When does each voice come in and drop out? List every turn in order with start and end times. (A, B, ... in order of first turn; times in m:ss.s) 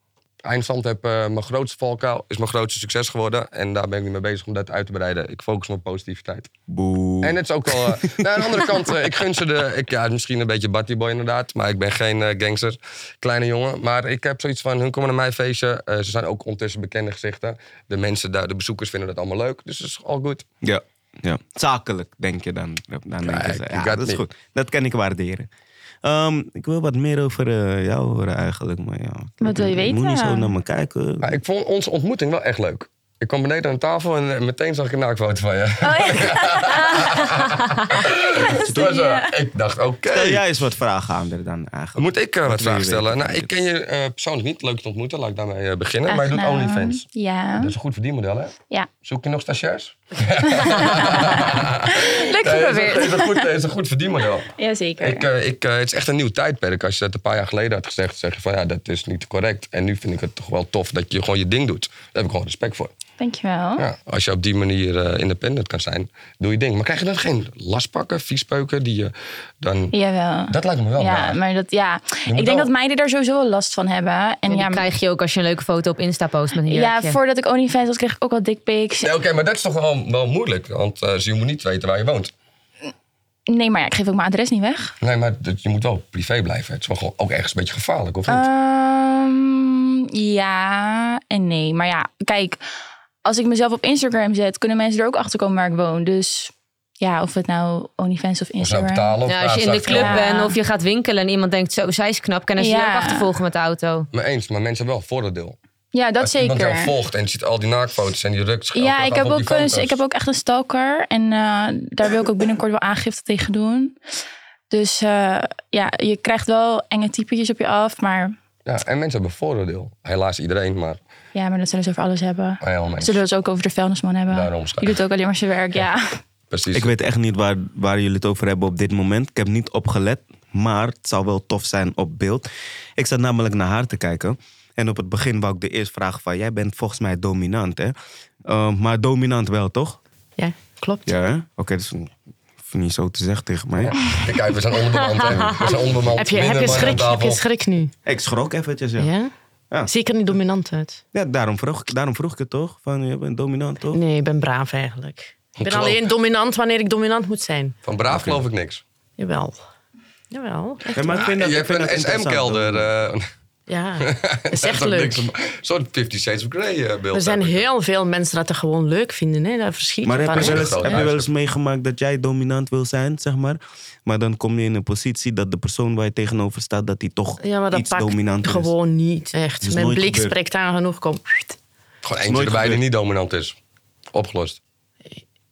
0:00.4-0:06.5 A
0:06.7-0:08.2 B
0:07.2-0:20.4 A
0:20.6-0:25.5 B
0:23.2-0:24.2 A
0:26.0-0:31.4 B
0:29.4-0:30.5 C
0:31.2-0:40.4 A
0:35.8-0:37.2 C
0:38.4-0:39.3 C
0:40.0-0:43.5 B
0:42.0-0:47.0 A
0:46.0-0:47.7 C
0:47.5-1:02.9 A
0:50.6-0:53.5 C
0:54.6-0:55.2 C
1:03.2-1:03.8 C
1:03.8-1:09.9 A
1:09.9-1:14.8 C
1:10.5-1:11.4 A
1:12.3-1:12.7 A
1:14.5-1:17.2 D
1:16.7-1:19.1 C
1:19.0-1:22.3 A
1:23.5-1:24.9 C
1:25.0-1:28.4 A
1:28.3-1:32.6 C
1:33.2-1:39.2 C
1:38.6-1:40.2 A
1:39.2-1:44.1 D
1:39.8-1:40.6 C
1:42.6-1:43.3 C
1:44.1-1:45.6 A
1:45.9-1:46.9 C
1:46.2-1:50.0 A
1:48.7-1:54.0 C
1:54.7-1:58.3 C
1:58.6-2:01.0 A
2:01.3-2:06.2 C
2:02.6-2:03.2 A
2:04.3-2:05.0 A
2:06.5-2:06.9 A
2:06.7-2:12.5 B
2:13.0-2:17.9 B
2:18.4-2:20.0 B
2:20.4-2:21.1 E
2:21.0-2:24.1 B
2:23.8-2:27.4 A
2:24.9-2:25.8 D
2:26.1-2:27.9 E
2:28.0-2:29.1 B
2:29.0-2:29.3 E
2:29.8-2:31.0 E
2:31.1-2:34.0 B
2:33.9-2:37.8 E
2:35.6-2:36.0 A
2:37.8-2:38.8 A
2:38.1-2:38.4 B
2:39.2-2:39.6 E
2:40.3-2:41.3 E
2:40.9-2:42.9 B
2:41.2-2:43.3 A
2:43.7-2:45.3 E
2:44.0-2:47.6 A
2:47.1-2:51.0 E
2:50.0-2:58.7 B
2:50.3-2:51.3 A
2:57.4-3:01.6 E
2:59.6-3:00.3 B
3:02.0-3:03.6 A
3:02.2-3:02.8 B
3:04.1-3:04.6 A